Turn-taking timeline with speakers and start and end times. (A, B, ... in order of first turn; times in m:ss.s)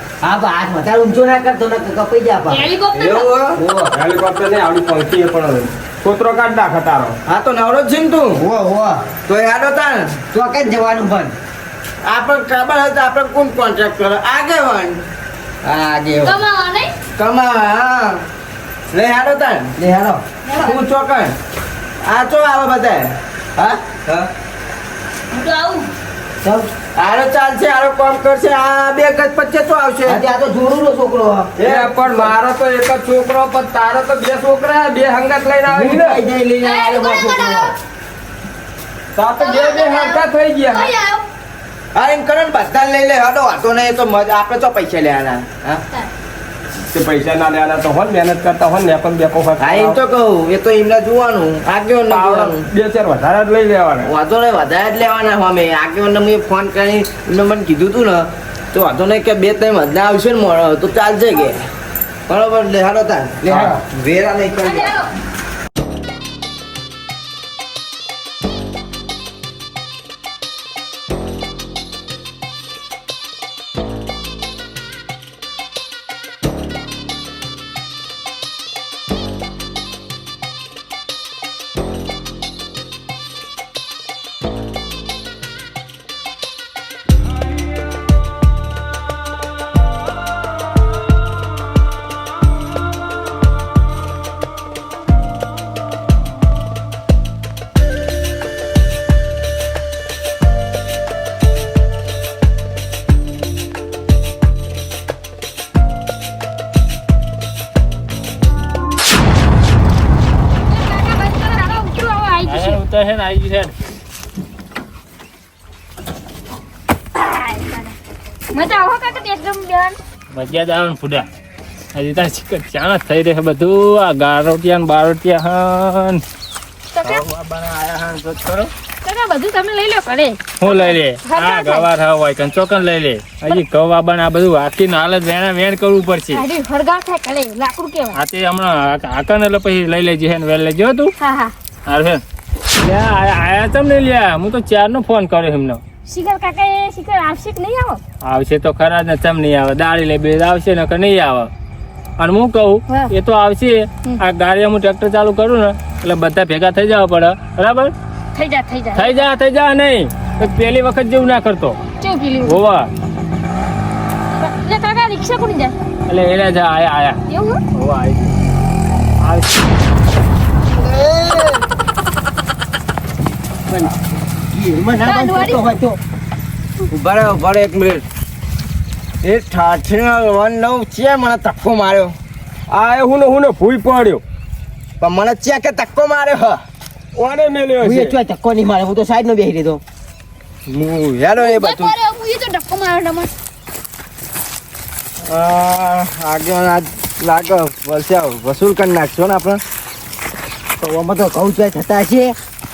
0:00.2-0:02.6 A
0:02.5-0:03.3 B
0:02.9-0:03.6 C
0:03.6-0:03.9 A
0:03.9-0:07.2 D
0:07.2-0:08.4 C
0:08.4-0:09.1 A
0:09.2-0:10.2 C
0:10.3-0:11.3 A
0:12.0-0:15.0 C
0:15.6-0:16.4 C
0:16.2-0:16.9 B
0:17.2-0:18.2 C
0:18.9-0:19.8 C
0:19.8-0:20.2 A
0:20.4-0:20.8 B
0:20.6-0:21.3 C
0:22.0-0:24.3 C
0:25.3-0:25.9 B
0:26.4-0:26.7 A
0:26.9-0:30.2 C
0:30.1-0:31.5 A
0:31.6-0:36.2 D
0:31.6-0:32.3 C
0:35.7-0:37.7 A
0:36.6-0:37.7 B
0:39.1-0:41.0 D
0:39.4-0:41.2 B
0:41.9-0:45.8 C
0:46.9-0:50.0 D
0:49.6-0:52.6 C
0:52.1-0:54.1 D
0:54.0-1:01.6 C
1:02.3-1:05.0 C
1:03.4-1:03.8 D
1:04.6-1:05.1 B
1:50.7-1:52.8 B
1:52.5-1:53.7 E
1:57.1-1:57.9 B
1:58.5-2:00.0 B
2:00.3-2:01.3 E
2:01.9-2:06.2 E
2:06.9-2:07.2 B
2:07.0-2:08.7 E
2:09.0-2:11.9 B
2:10.6-2:16.4 E
2:16.3-2:18.2 B
2:18.1-2:21.1 E
2:21.2-2:21.5 B
2:21.9-2:22.2 E
2:22.8-2:25.8 E
2:26.0-2:28.0 B
2:28.2-2:31.5 E
2:32.2-2:37.9 E
2:38.3-2:39.3 B
2:38.9-2:41.8 E
2:42.0-2:42.6 B
2:42.4-2:42.9 E
2:44.4-2:45.8 B
2:46.1-2:47.2 E
2:47.3-2:47.6 B
2:47.7-2:48.3 E
2:49.2-2:49.5 E
2:50.7-2:51.6 C
2:54.5-2:56.0 A
2:55.0-2:55.6 B
2:56.9-2:58.0 C
2:59.2-3:02.1 C
3:02.7-3:04.2 D
3:05.0-3:06.6 C
3:07.2-3:08.2 D
3:07.8-3:09.8 A
3:10.7-3:11.9 C
3:11.4-3:13.3 B
3:15.2-3:19.6 C
3:20.8-3:22.4 A